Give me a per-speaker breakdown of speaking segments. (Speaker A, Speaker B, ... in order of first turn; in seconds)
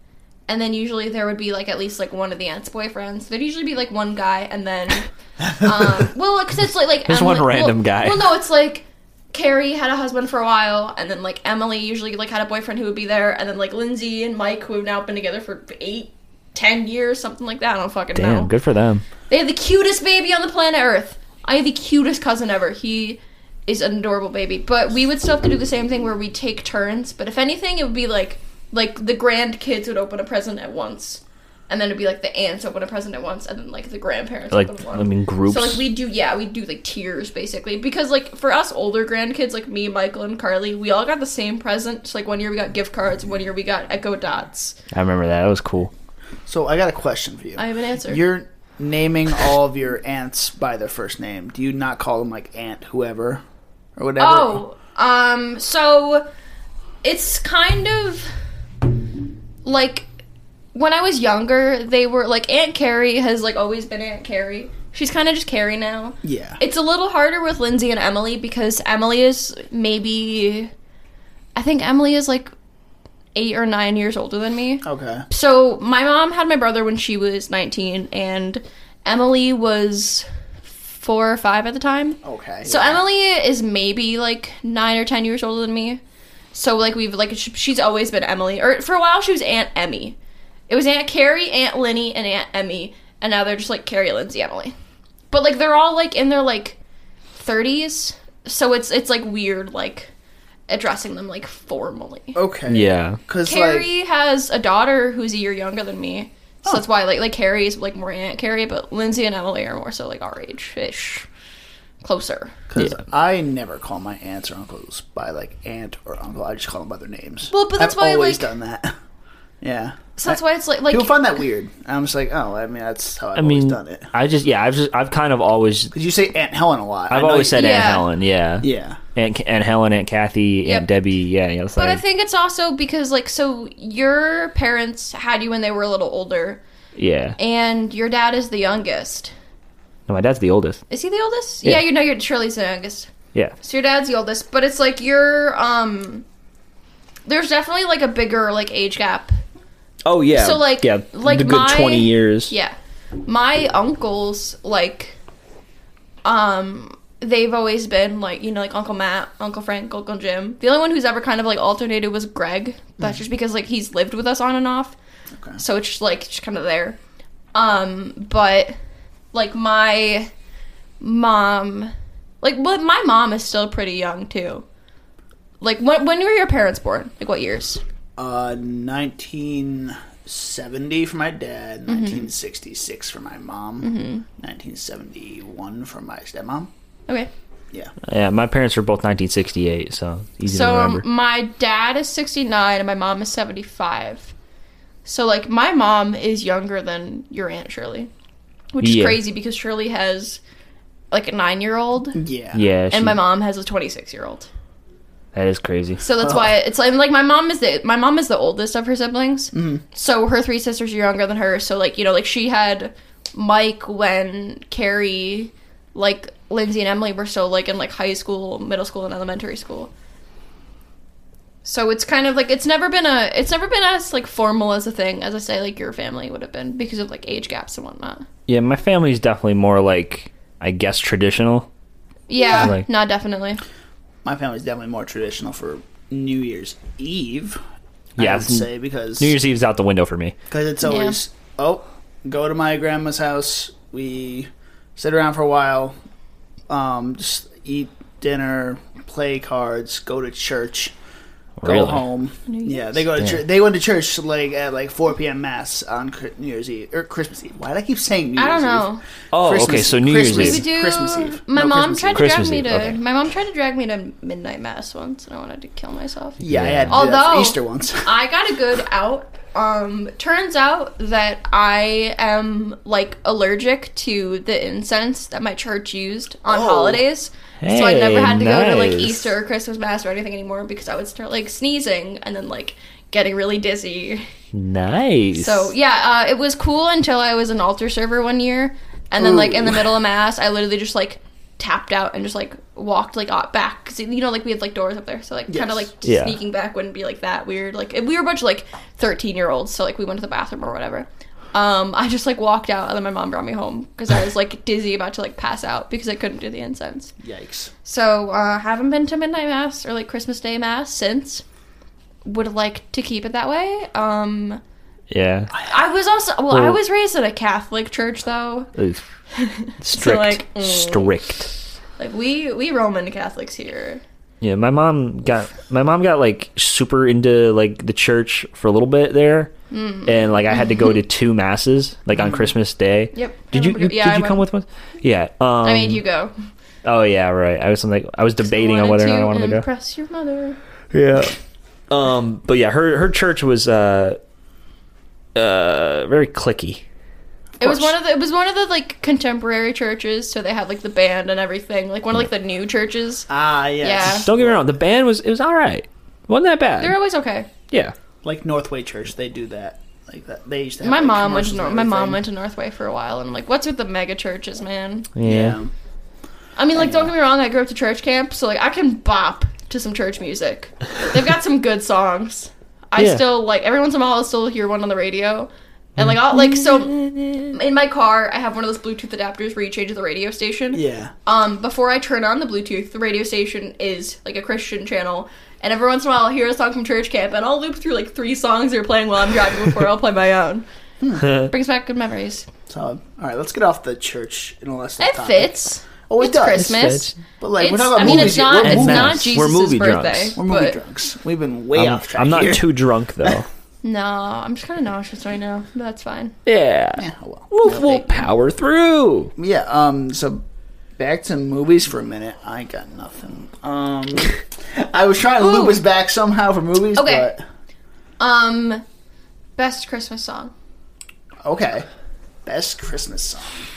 Speaker A: 0.5-18.5, 19.3-44.8, 47.6-48.2, 54.2-56.3, 57.0-58.3, 59.6-60.1, 60.7-70.7, 71.5-72.5, 73.3-80.3, 80.9-86.0, 86.5-90.2, 90.7-94.7, 95.3-96.8, 97.4-100.1, 100.7-102.4, 103.4-111.3, 112.0-112.6, 117.5-118.5, 120.2-121.2, 127.5-128.1, 131.8-136.6, 137.4-139.3, 140.9-146.2, 147.3-149.4, 150.3-155.2, 156.2-164.9, 165.6-167.0, 167.5-168.8, 169.3-170.3, 171.0-174.6, 175.6-177.8, 181.9-182.3, 183.8-184.2, 190.4-194.3, 195.1-198.1, 198.7-200.4, 201.1-202.2, 202.9-204.5, 206.0-219.9, 221.6-228.3, 232.3-233.6, 240.8-241.2, 252.5-253.0, 258.4-259.0, 260.3-284.2, 285.4-307.1, 307.9-311.4, 312.2-314.6, 315.6-318.7, 319.3-321.1, 322.0-324.0, 329.7-330.9, 333.1-334.4, 335.6-336.3, 338.4-340.6, 347.6-354.3, 356.8-357.5, 360.8-365.1, 366.6-390.6, 391.4-392.5, 395.0-400.8, 403.8-406.4, 415.4-415.8, 416.9-417.3, 418.2-418.8, 419.6-420.5
Speaker B: 7.1-8.3, 18.1-19.1, 34.5-35.8, 44.9-45.9, 102.7-103.2, 123.4-125.9, 127.1-132.0, 136.9-137.4, 140.1-140.8, 150.1-152.5, 188.0-191.1, 198.8-199.2, 202.5-203.2, 205.3-206.0, 228.5-231.7, 232.4-232.9, 238.2-240.4, 251.6-252.0, 253.2-253.4, 259.3-260.6, 262.1-263.0, 266.4-267.0, 277.6-279.3, 284.5-285.7, 296.0-296.4, 315.1-315.5, 316.5-316.8, 318.8-319.0, 319.8-321.5, 324.4-329.5, 330.1-336.0, 336.8-339.6, 340.9-341.4, 341.9-344.2, 345.4-346.8, 354.0-357.0, 365.1-365.6, 373.0-373.2, 376.0-377.5, 391.2-391.5, 396.6-397.1, 398.0-400.4, 401.8-403.4, 406.4-409.3
Speaker C: 46.5-53.4, 54.0-54.6, 66.2-66.6, 74.8-75.2, 82.2-83.0, 102.3-103.9, 112.7-118.9, 119.6-124.1, 125.9-127.8, 128.6-129.0, 178.2-186.7, 202.1-202.6, 206.2-206.5, 209.5-209.8, 234.2-237.6, 238.2-239.4, 240.5-245.9, 246.7-250.9, 251.6-258.9, 259.4-262.3, 266.4-268.1, 276.4-277.0, 289.2-289.8, 295.5-295.9, 307.2-307.7, 347.6-347.9, 353.3-354.6, 358.2-362.2, 365.2-365.7, 366.7-367.1, 380.7-381.1, 391.0-391.3, 392.7-396.8, 397.4-399.2, 400.4-403.4, 406.9-408.1, 409.4-410.4, 411.0-417.4, 421.4-421.9, 422.4-423.7